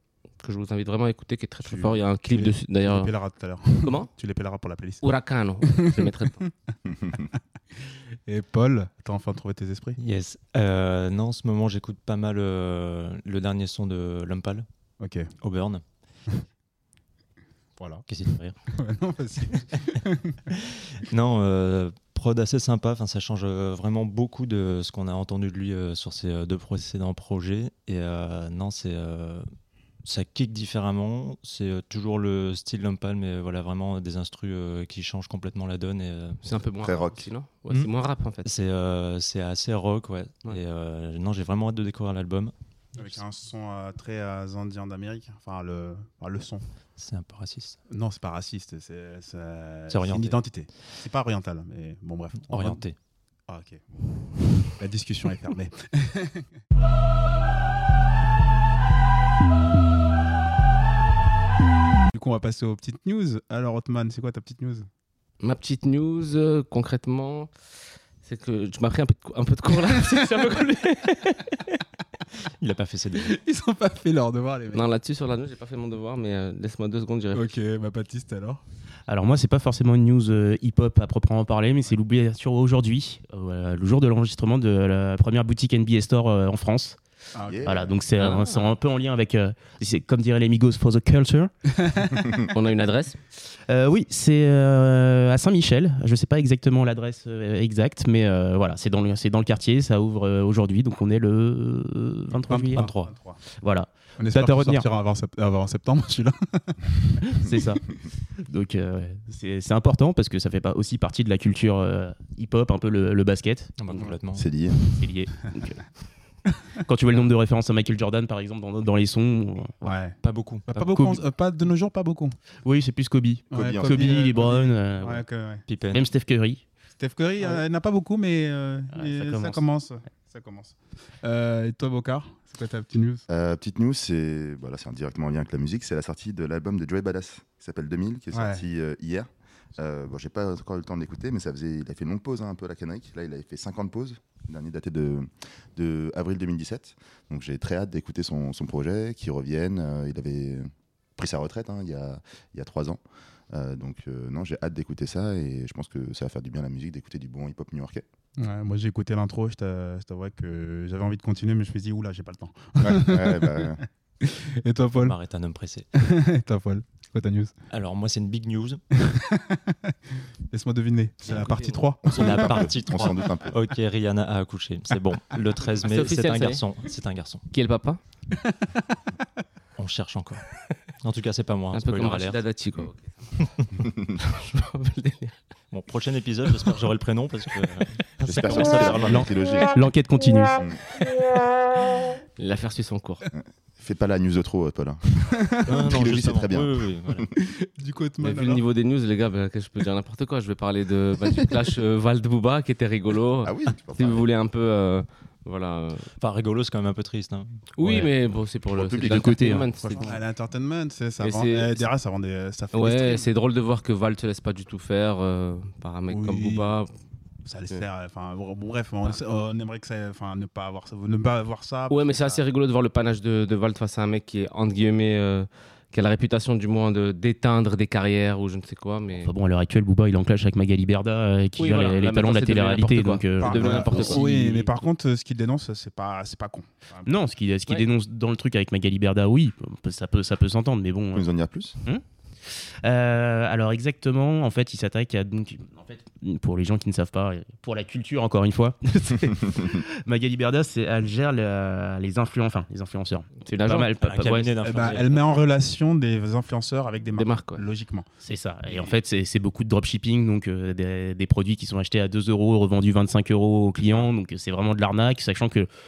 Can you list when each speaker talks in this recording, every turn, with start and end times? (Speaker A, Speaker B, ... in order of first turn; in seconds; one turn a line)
Speaker A: 0.4-3.1
Speaker B: 1.6-5.0
Speaker A: 3.8-4.1
Speaker A: 5.0-6.4
Speaker B: 5.7-6.7
Speaker C: 7.0-7.2
Speaker B: 8.2-10.0
Speaker D: 10.0-14.7
Speaker B: 15.0-15.3
Speaker D: 15.4-15.8
Speaker B: 17.8-18.1
Speaker D: 18.1-18.6
Speaker B: 18.7-20.5
Speaker D: 20.5-29.4
Speaker D: 30.0-36.4
Speaker A: 36.4-38.5
Speaker C: 36.8-37.2
Speaker D: 38.4-43.2
Speaker B: 43.0-46.6
Speaker D: 47.0-47.8
Speaker B: 47.9-52.8
Speaker D: 49.9-50.4
Speaker D: 52.5-53.0
Speaker B: 53.5-53.8
Speaker B: 54.6-56.5
Speaker B: 62.1-64.9
Speaker A: 65.4-67.5
Speaker A: 68.2-71.6
Speaker B: 70.1-70.4
Speaker D: 72.6-73.3
Speaker B: 73.2-74.9
Speaker A: 74.7-77.5
Speaker B: 77.3-78.6
Speaker E: 79.1-87.0
Speaker B: 87.3-87.7
Speaker C: 87.4-88.0
Speaker E: 87.6-91.5
Speaker A: 88.2-88.6
Speaker A: 92.4-93.2
Speaker E: 93.7-102.9
Speaker B: 102.3-103.4
Speaker D: 102.7-103.1
Speaker E: 103.6-104.9
Speaker B: 104.2-107.5
Speaker E: 107.3-107.8
Speaker E: 108.4-113.7
Speaker D: 113.8-114.5
Speaker C: 114.3-114.8
Speaker E: 114.9-115.8
Speaker E: 116.8-119.9
Speaker B: 119.8-122.3
Speaker D: 120.2-120.7
Speaker E: 120.7-121.2
Speaker E: 122.6-125.2
Speaker B: 123.5-125.7
Speaker C: 123.5-124.2
Speaker D: 125.7-126.1
Speaker E: 125.9-126.6
Speaker B: 127.0-133.2
Speaker E: 128.9-129.6
Speaker C: 133.3-153.0
Speaker B: 138.3-138.6
Speaker C: 153.5-158.0
Speaker B: 158.4-165.2
Speaker C: 162.8-163.8
Speaker D: 164.9-165.9
Speaker B: 165.9-167.5
Speaker D: 167.7-168.8
Speaker B: 168.9-169.9
Speaker B: 170.5-172.7
Speaker A: 171.2-171.9
Speaker D: 172.1-177.4
Speaker C: 172.2-173.6
Speaker A: 175.7-176.6
Speaker A: 177.5-178.0
Speaker B: 178.4-178.7
Speaker D: 179.8-180.4
Speaker D: 181.0-182.4
Speaker A: 181.7-183.4
Speaker D: 183.4-183.7
Speaker C: 183.8-184.1
Speaker A: 184.2-185.4
Speaker D: 185.7-189.3
Speaker A: 186.5-186.7
Speaker C: 188.2-189.7
Speaker E: 189.0-190.6
Speaker C: 190.6-190.8
Speaker A: 192.4-193.2
Speaker C: 193.3-197.3
Speaker D: 195.7-197.3
Speaker B: 197.3-198.6
Speaker A: 198.2-206.1
Speaker C: 203.4-204.2
Speaker D: 206.2-207.6
Speaker A: 207.8-210.2
Speaker E: 207.8-208.1
Speaker C: 208.7-209.6
Speaker E: 209.0-209.7
Speaker B: 209.8-213.3
Speaker A: 211.2-211.9
Speaker A: 212.7-216.9
Speaker B: 216.1-216.7
Speaker B: 217.4-222.4
Speaker A: 221.9-229.3
Speaker E: 229.1-234.5
Speaker A: 231.6-234.7
Speaker B: 233.4-237.1
Speaker E: 237.1-241.3
Speaker C: 241.1-241.8
Speaker E: 242.5-254.5
Speaker A: 253.4-255.1
Speaker D: 254.0-255.1
Speaker B: 254.6-258.1
Speaker A: 257.1-257.6
Speaker E: 258.2-265.7